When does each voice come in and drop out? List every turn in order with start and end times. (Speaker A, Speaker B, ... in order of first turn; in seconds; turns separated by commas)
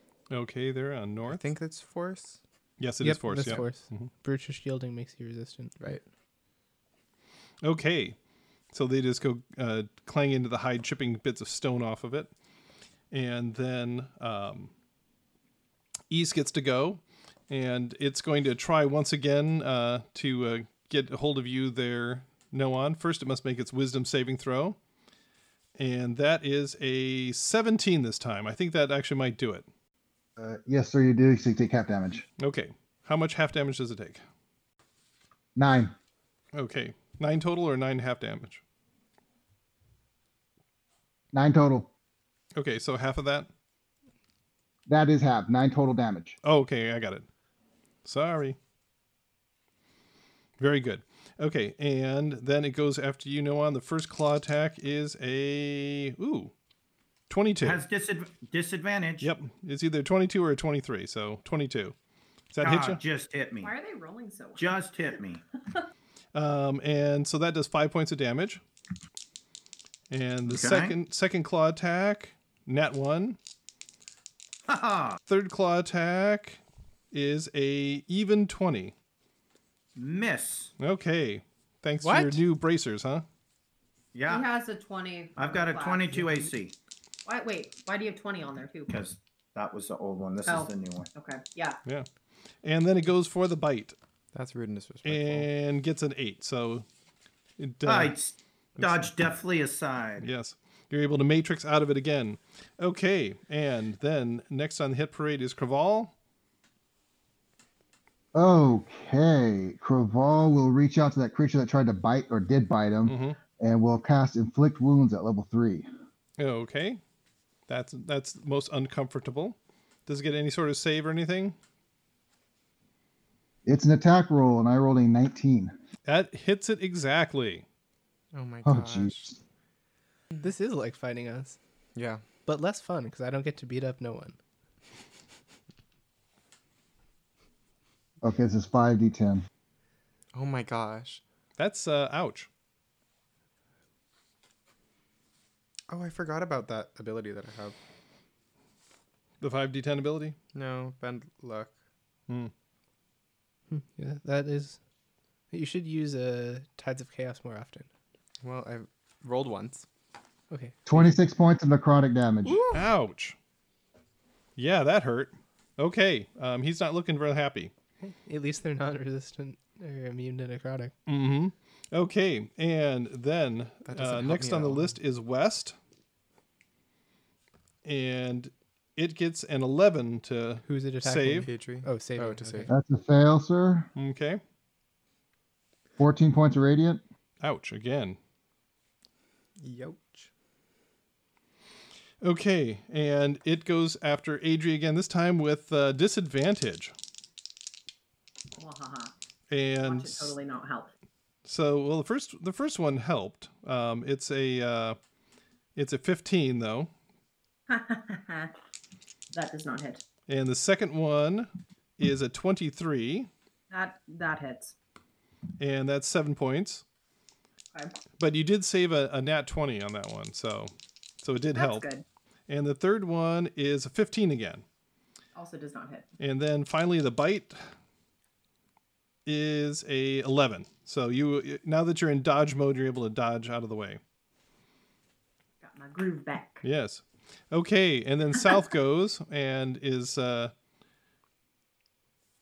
Speaker A: 0.3-1.4, Speaker B: 1.2-2.4, Speaker A: 2.8-4.1, Speaker C: 3.0-5.8, Speaker A: 7.6-8.2, Speaker A: 8.7-12.3, Speaker A: 13.1-14.7, Speaker A: 16.1-24.8, Speaker A: 25.8-29.7, Speaker D: 30.4-32.2, Speaker A: 32.4-34.2, Speaker D: 35.6-35.9, Speaker A: 36.5-38.6, Speaker D: 41.3-41.9, Speaker A: 42.6-43.5, Speaker D: 44.9-46.4, Speaker A: 46.4-47.3, Speaker A: 48.0-48.6, Speaker A: 50.6-56.5, Speaker A: 57.3-57.8, Speaker E: 57.6-59.3, Speaker A: 59.2-62.0, Speaker A: 62.5-63.0, Speaker E: 62.6-63.7, Speaker F: 63.6-64.8, Speaker E: 64.6-65.4, Speaker A: 66.3-68.6, Speaker A: 70.1-73.4, Speaker E: 70.5-71.0, Speaker E: 74.7-75.2, Speaker A: 75.3-76.6, Speaker A: 77.1-78.9, Speaker E: 80.0-80.7, Speaker A: 80.8-83.2, Speaker C: 82.0-82.4, Speaker E: 84.1-84.5, Speaker F: 84.3-86.5, Speaker E: 85.4-86.8, Speaker F: 87.3-89.0, Speaker E: 88.9-91.1, Speaker F: 90.5-91.8, Speaker A: 92.6-94.0, Speaker B: 94.3-95.5, Speaker A: 95.0-96.8, Speaker A: 97.6-98.2, Speaker E: 97.8-100.3, Speaker A: 98.8-99.1, Speaker A: 100.2-106.1, Speaker D: 108.3-115.9, Speaker A: 113.1-113.4, Speaker A: 116.4-117.0, Speaker A: 117.7-121.6, Speaker D: 123.7-125.8, Speaker A: 126.0-127.6, Speaker B: 128.3-129.3, Speaker D: 128.7-129.4, Speaker C: 130.4-131.6, Speaker B: 131.9-132.2, Speaker C: 132.5-134.4, Speaker D: 138.2-139.4, Speaker B: 140.3-141.2, Speaker A: 141.6-142.5, Speaker B: 145.9-147.8, Speaker A: 149.4-150.4, Speaker B: 150.5-151.7, Speaker C: 153.7-154.8, Speaker C: 155.5-157.9, Speaker B: 158.4-159.9, Speaker C: 160.5-160.8, Speaker D: 160.9-162.6, Speaker A: 162.7-163.4, Speaker A: 164.6-167.7, Speaker C: 168.0-170.9, Speaker A: 171.1-175.8, Speaker B: 173.9-174.9, Speaker A: 177.8-181.5, Speaker C: 180.7-182.7, Speaker B: 181.4-182.7, Speaker D: 182.7-183.9, Speaker A: 184.0-184.4, Speaker D: 186.0-187.0, Speaker A: 187.4-188.2, Speaker B: 189.6-190.3, Speaker A: 192.2-196.9, Speaker F: 198.6-199.1, Speaker A: 199.5-200.3, Speaker F: 199.8-200.9, Speaker A: 201.4-205.0, Speaker A: 205.8-206.9, Speaker F: 207.7-208.5, Speaker F: 209.3-210.0, Speaker A: 210.3-213.3, Speaker F: 213.7-214.8, Speaker A: 215.6-216.8, Speaker A: 218.2-221.9, Speaker F: 221.6-222.1, Speaker A: 222.5-224.6, Speaker F: 225.3-226.1, Speaker A: 226.2-227.6, Speaker A: 229.3-234.0, Speaker F: 235.6-236.7, Speaker A: 236.6-240.5